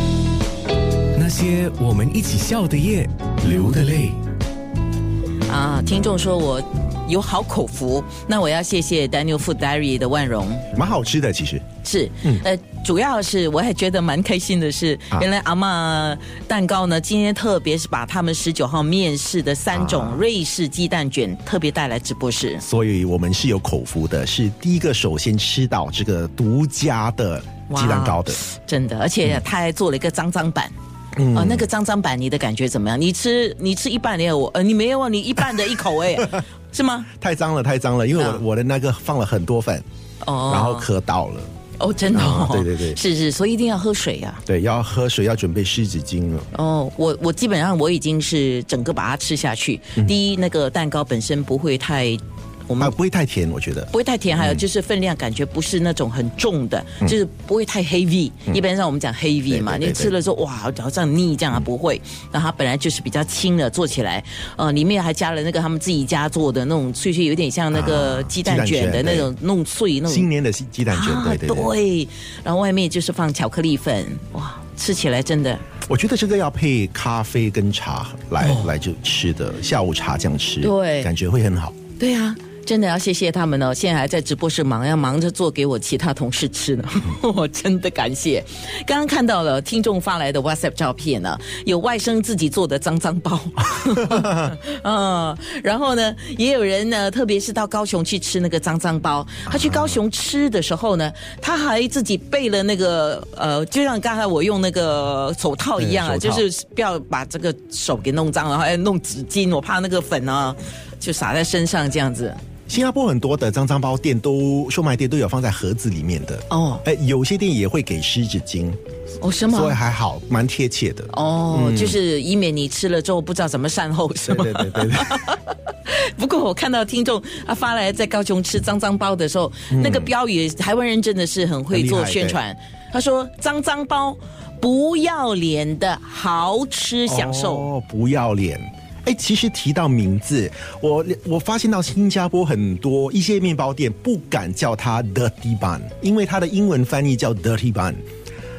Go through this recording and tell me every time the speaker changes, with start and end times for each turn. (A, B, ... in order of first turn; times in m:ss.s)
0:01.1-0:04.2 A
0:05.5-0:10.7 B
0:10.7-0:11.6 C
0:11.8-0:22.6 B
0:19.7-0:20.2 C
0:22.6-0:28.4 C
0:27.7-0:30.7 B
0:31.2-0:31.7 C
0:31.3-0:37.1 B
0:37.2-0:39.8 C
0:38.2-0:38.4 B
0:40.2-0:40.9 B
0:40.5-0:41.5 C
0:41.8-0:44.4 B
0:42.1-0:43.0 C
0:44.4-0:46.5 C
0:46.5-0:52.9 B
0:52.8-0:54.6 C
0:53.9-1:10.3 B
0:59.5-1:00.1 C
1:07.7-1:09.3 C
1:10.0-1:11.7 C
1:10.9-1:15.6 B
1:15.9-1:21.7 C
1:18.4-1:18.7 B
1:20.6-1:21.1 B
1:22.0-1:52.4 B
1:34.0-1:34.4 C
1:39.5-1:40.0 C
1:45.8-1:46.4 C
1:52.7-1:58.8 C
1:56.5-1:56.8 B
1:59.2-1:59.8 B
1:59.5-2:02.0 C
2:01.1-2:17.7 B
2:04.2-2:05.3 C
2:09.7-2:10.1 C
2:11.7-2:12.4 C
2:17.1-2:28.0 C